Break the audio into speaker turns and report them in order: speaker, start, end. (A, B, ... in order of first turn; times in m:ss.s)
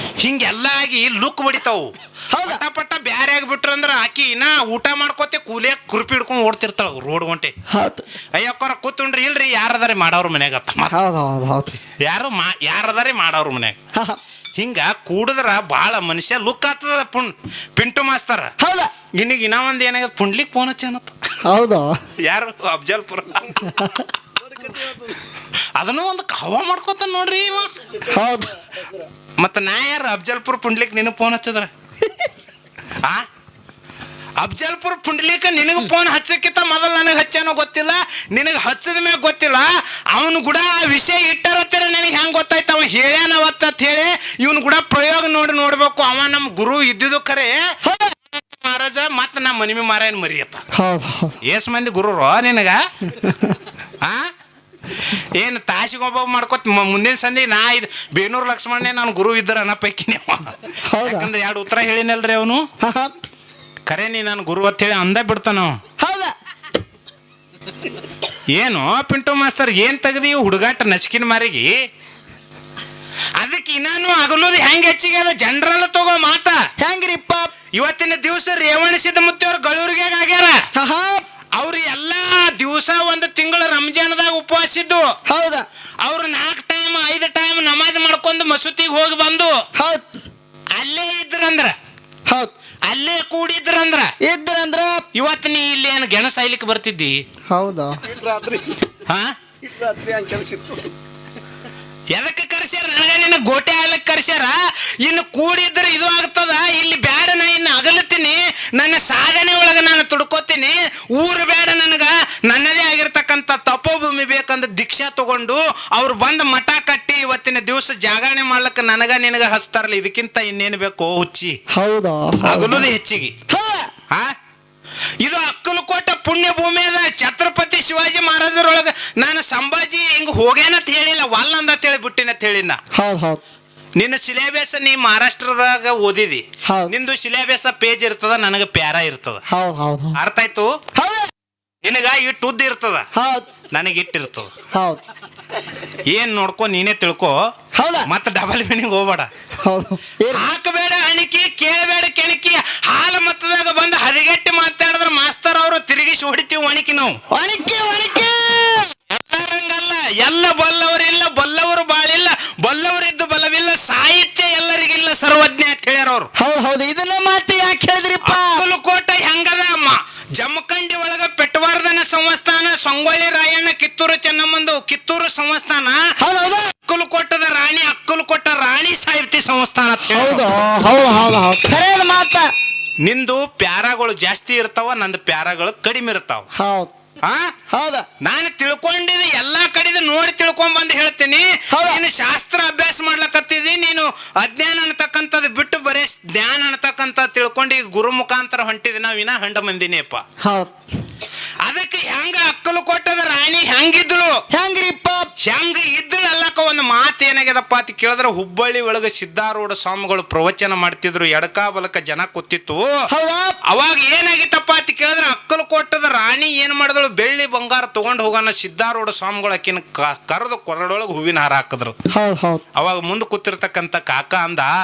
0:00.2-0:07.5 A
0:02.3-0:02.6 B
0:07.7-0:08.0 B
0:08.3-0:11.0 A
0:10.9-0:11.8 B
0:12.0-0:13.8 A
0:14.6-0:18.5 A
0:18.6-0:18.9 B
0:19.2-0:21.1 A
0:21.4-0:21.9 B
0:22.2-0:24.0 A
0:23.8-0:24.0 B
0:24.5-0:25.2 C
0:25.8-0:28.0 A
0:28.1-0:28.6 B
0:28.8-0:29.0 C
0:29.4-0:31.7 A
0:34.4-0:47.6 A
0:47.8-0:48.1 B
0:48.3-0:50.6 A
0:50.7-0:51.4 B
0:51.4-0:52.8 A
0:53.1-0:53.6 B
0:55.0-1:02.6 A
1:00.9-1:01.3 B
1:02.8-1:03.1 B
1:03.9-1:05.8 A
1:06.0-1:06.3 B
1:08.5-1:11.7 A
1:13.4-1:16.6 A
1:16.8-1:17.5 B
1:17.7-1:20.6 A
1:20.8-1:21.2 B
1:21.6-1:25.0 A
1:25.3-1:25.6 B
1:26.0-1:29.5 A
1:29.8-1:30.1 B
1:30.8-1:31.7 A
1:32.3-1:32.5 B
1:32.9-1:34.1 A
1:34.2-1:35.0 B
1:35.1-1:37.2 A
1:37.5-1:38.0 B
1:38.1-1:38.8 C
1:39.7-1:40.9 C
1:42.1-2:01.5 A
2:01.7-2:02.9 B
2:02.4-2:03.4 A
2:03.5-2:03.9 B
2:05.2-2:12.8 A
2:12.9-2:13.4 B
2:14.0-2:19.4 A
2:16.7-2:16.9 B
2:19.5-2:20.2 B
2:20.2-2:20.7 A
2:21.0-2:21.3 B
2:21.8-2:23.0 A
2:23.1-2:23.5 B
2:23.7-2:24.5 A
2:24.7-2:25.0 B
2:26.1-2:27.4 A
2:27.8-2:28.1 B
2:28.1-2:29.3 A
2:29.6-2:30.5 B
2:30.3-2:37.2 A
2:37.3-2:38.9 B
2:39.1-2:46.3 A
2:46.4-2:48.6 B
2:48.2-2:56.0 A
2:56.2-2:56.7 B
2:56.8-3:00.4 A
3:00.1-3:02.5 B
3:03.0-3:06.5 A
3:06.6-3:06.9 B
3:07.7-3:08.1 B
3:08.2-3:20.2 A
3:11.7-3:12.0 B
3:20.4-3:20.7 B
3:21.6-3:24.3 A
3:24.5-3:25.3 B
3:25.4-3:32.9 A
3:33.1-3:33.6 B
3:33.7-3:41.9 A
3:42.1-3:42.6 B
3:42.8-3:44.7 A